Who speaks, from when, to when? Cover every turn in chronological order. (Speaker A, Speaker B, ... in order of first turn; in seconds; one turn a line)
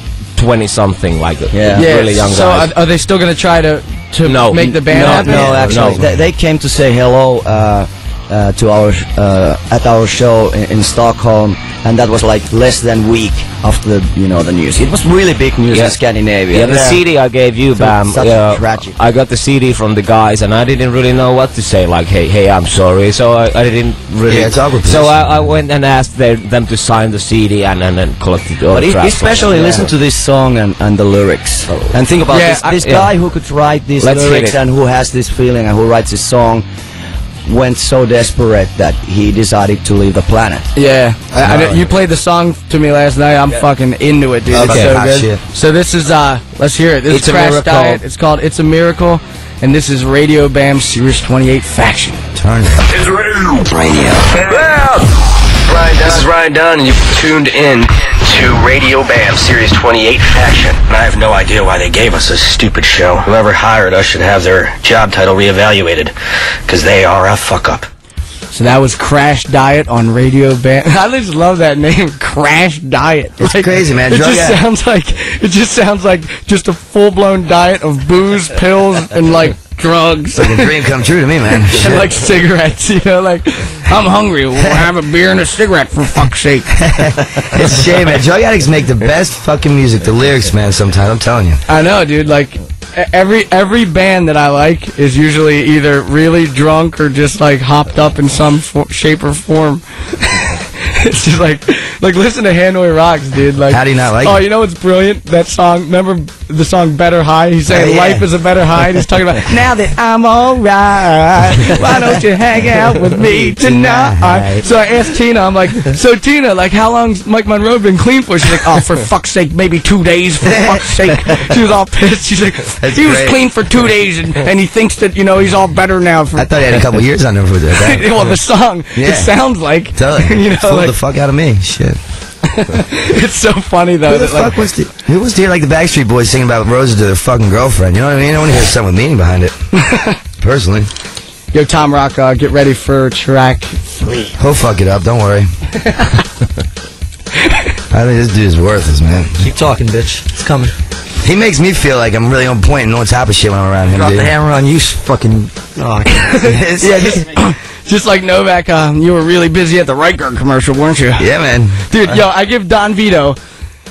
Speaker A: 0.3-2.7
Speaker B: 1.5-1.9
Speaker C: 1.8-5.8
Speaker A: 4.2-6.0
Speaker B: 4.6-17.0
Speaker D: 5.8-6.0
Speaker A: 15.7-16.0
Speaker A: 16.5-29.9
Speaker B: 17.8-18.9
Speaker D: 24.3-25.5
Speaker B: 28.7-36.7
Speaker D: 29.6-29.9
Speaker C: 32.3-33.0
Speaker A: 32.8-33.1
Speaker A: 34.0-34.6
Speaker B: 37.5-40.7
Speaker C: 40.8-52.2
Speaker D: 41.3-41.9
Speaker D: 44.5-45.4
Speaker A: 47.1-48.0
Speaker D: 52.4-52.9
Speaker E: 52.9-53.8
Speaker B: 53.7-54.3
Speaker E: 54.3-55.1
Speaker E: 55.7-66.1
Speaker E: 66.7-67.9
Speaker C: 68.5-80.7
Speaker D: 73.4-74.6
Speaker D: 80.3-82.1
Speaker C: 81.7-86.8
Speaker D: 86.8-91.6
Speaker C: 91.7-126.8
Speaker D: 103.7-104.4
Speaker D: 107.7-108.3
Speaker D: 113.6-114.7
Speaker D: 120.5-120.8
Speaker D: 122.8-123.4
Speaker D: 126.3-128.1
Speaker C: 127.8-130.9
Speaker D: 128.9-129.3
Speaker D: 129.9-132.0
Speaker C: 132.5-134.6
Speaker D: 134.1-139.5
Speaker C: 139.8-140.2
Speaker D: 140.4-140.9
Speaker C: 141.5-144.2
Speaker D: 144.4-145.5
Speaker D: 147.9-149.5
Speaker F: 149.4-150.7
Speaker D: 151.2-154.3
Speaker F: 154.0-156.3
Speaker D: 156.3-157.3
Speaker C: 156.8-161.3
Speaker D: 161.2-161.8
Speaker C: 161.9-163.4